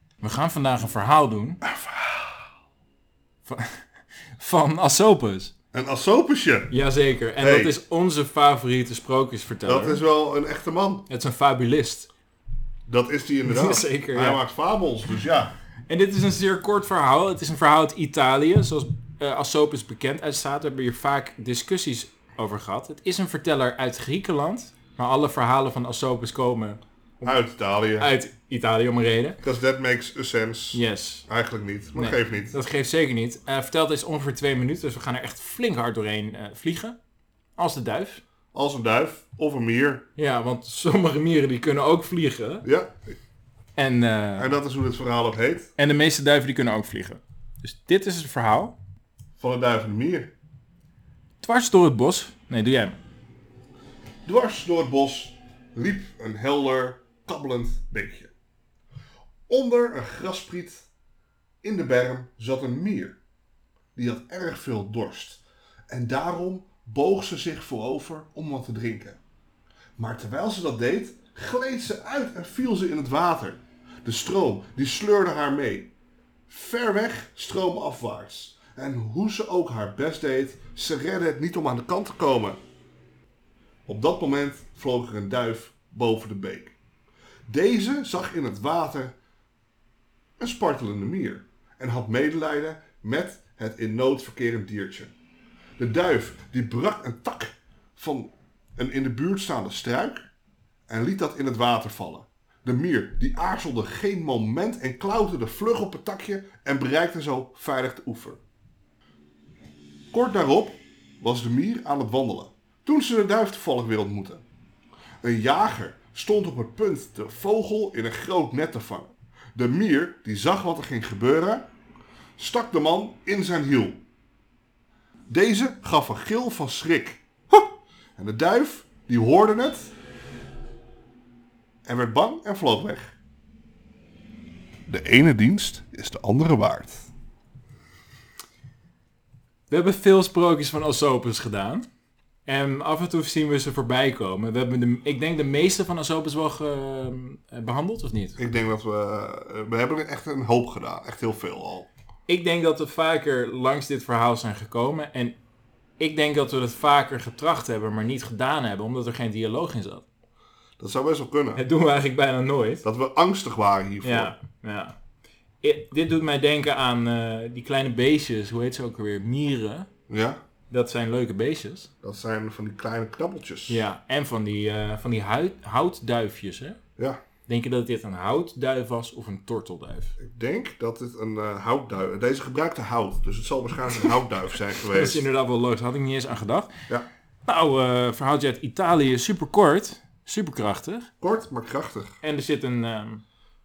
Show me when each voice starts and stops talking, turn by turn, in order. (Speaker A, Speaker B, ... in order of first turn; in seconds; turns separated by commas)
Speaker A: 0.2-1.6, Speaker B: 1.6-2.5, Speaker A: 3.5-5.5, Speaker B: 5.7-6.7, Speaker A: 6.7-10.0, Speaker B: 7.4-7.7, Speaker B: 9.7-11.1, Speaker A: 11.1-12.1, Speaker B: 12.9-15.5, Speaker A: 13.4-14.4, Speaker A: 15.9-27.4, Speaker B: 27.2-28.1, Speaker A: 28.0-29.4, Speaker B: 29.4-32.5, Speaker A: 30.7-31.3, Speaker A: 32.0-37.0, Speaker A: 37.6-38.2, Speaker B: 38.5-40.1, Speaker A: 40.2-42.7, Speaker B: 42.6-43.2, Speaker A: 43.8-44.5, Speaker B: 44.4-45.7, Speaker A: 45.8-48.8, Speaker B: 49.4-50.3, Speaker A: 51.4-53.0, Speaker B: 54.2-58.3, Speaker B: 59.5-60.9, Speaker B: 61.6-63.2, Speaker B: 64.0-69.2, Speaker B: 70.0-75.9, Speaker B: 76.5-82.6, Speaker B: 83.9-86.8, Speaker B: 87.5-89.2, Speaker B: 90.4-95.1, Speaker B: 95.8-100.2, Speaker B: 100.9-108.4, Speaker B: 110.1-114.5, Speaker B: 115.2-121.7, Speaker B: 122.4-124.0, Speaker B: 125.3-129.9, Speaker B: 131.8-133.1, Speaker B: 134.9-137.1, Speaker A: 139.7-141.9, Speaker A: 142.5-148.4, Speaker B: 148.4-151.9, Speaker A: 152.3-155.4, Speaker A: 156.0-160.1, Speaker B: 160.8-161.6, Speaker A: 161.6-162.8, Speaker B: 162.8-164.3, Speaker A: 164.0-165.0, Speaker A: 165.6-169.9, Speaker B: 170.1-170.4, Speaker A: 170.7-171.9, Speaker B: 172.0-173.8, Speaker A: 173.7-176.8, Speaker A: 177.5-180.2, Speaker B: 180.2-185.2, Speaker A: 184.8-186.7, Speaker A: 187.5-191.1, Speaker B: 191.2-192.2, Speaker A: 192.2-193.2